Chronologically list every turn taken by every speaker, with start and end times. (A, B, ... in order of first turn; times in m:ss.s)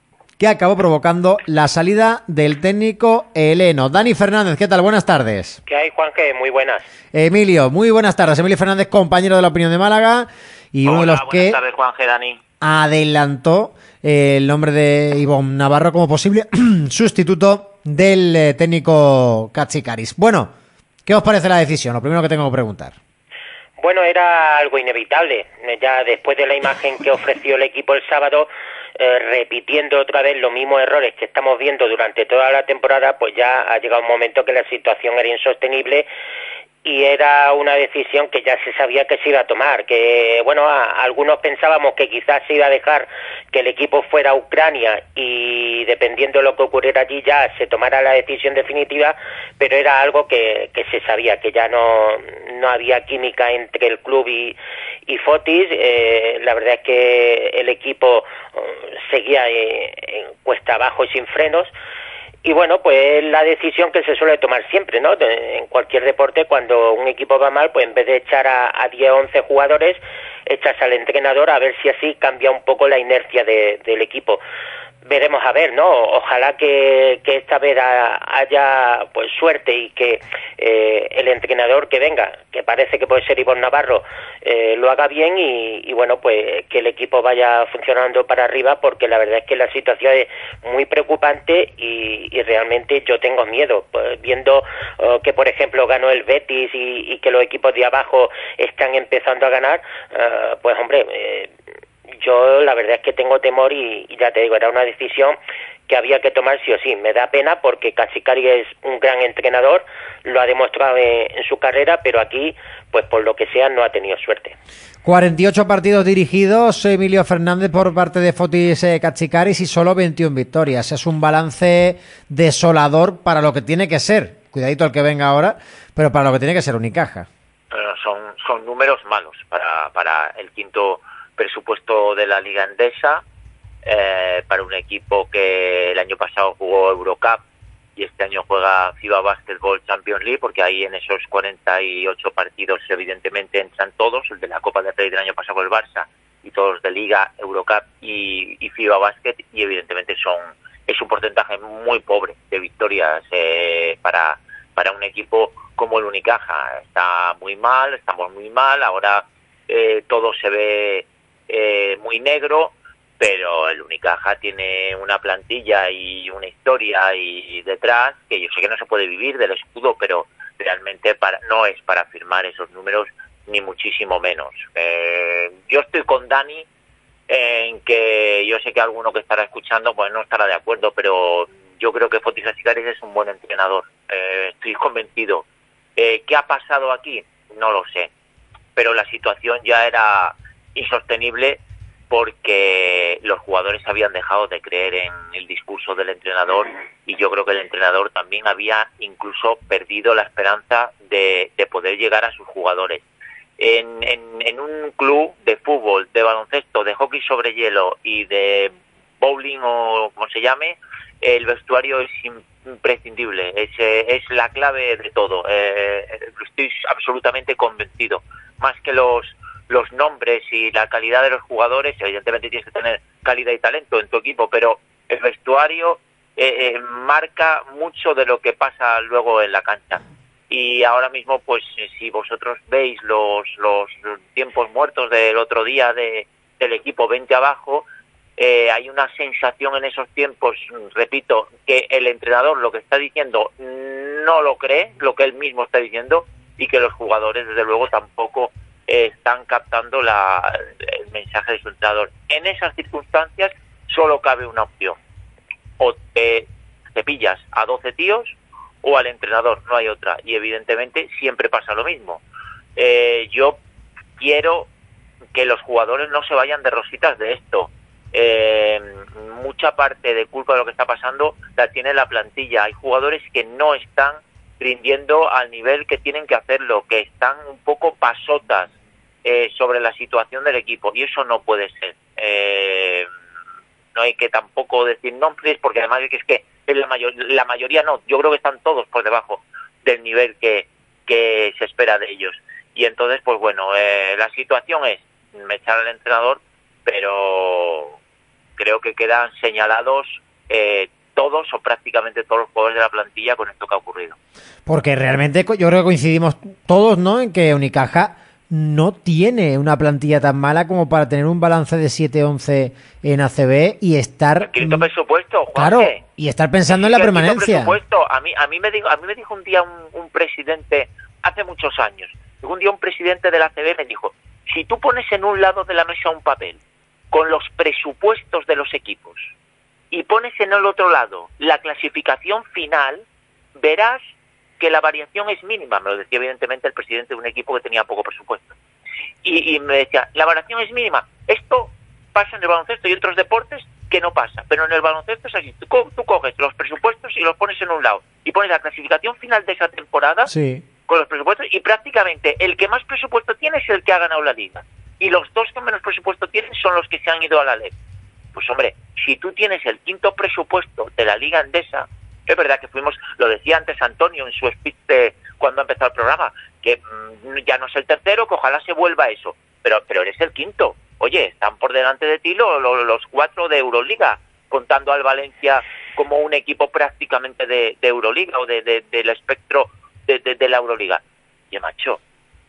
0:00.4-0:05.6 A
0:05.7-0:06.8 B
0:07.1-0:11.6 A
0:10.8-0:12.4 C
0:12.6-0:20.5 A
0:21.0-0:22.9 A
0:23.8-0:36.1 B
0:36.8-1:01.7 B
1:02.4-1:14.4 B
1:15.0-1:41.5 B
1:42.2-1:45.4 B
1:45.9-1:54.6 B
1:55.0-2:07.3 A
2:07.7-2:13.2 C
2:13.8-2:17.4 C
2:18.0-2:56.7 C
2:57.3-3:08.1 C
3:08.8-3:23.0 C
3:23.6-4:15.0 C
4:15.8-4:22.2 C
4:22.8-4:23.6 C
4:24.2-4:24.7 C
4:25.3-4:43.1 C
4:43.9-4:58.0 C
4:58.6-5:04.2 C
5:04.6-5:14.9 A
5:14.4-5:16.0 C
5:15.5-5:17.8 A
5:16.7-5:26.6 C
5:27.1-5:29.2 C
5:29.9-5:33.0 C
5:33.6-5:34.0 C
5:34.6-5:38.5 C
5:39.2-5:50.3 C
5:50.3-5:50.6 A
5:50.9-5:57.7 C
5:58.3-6:22.0 C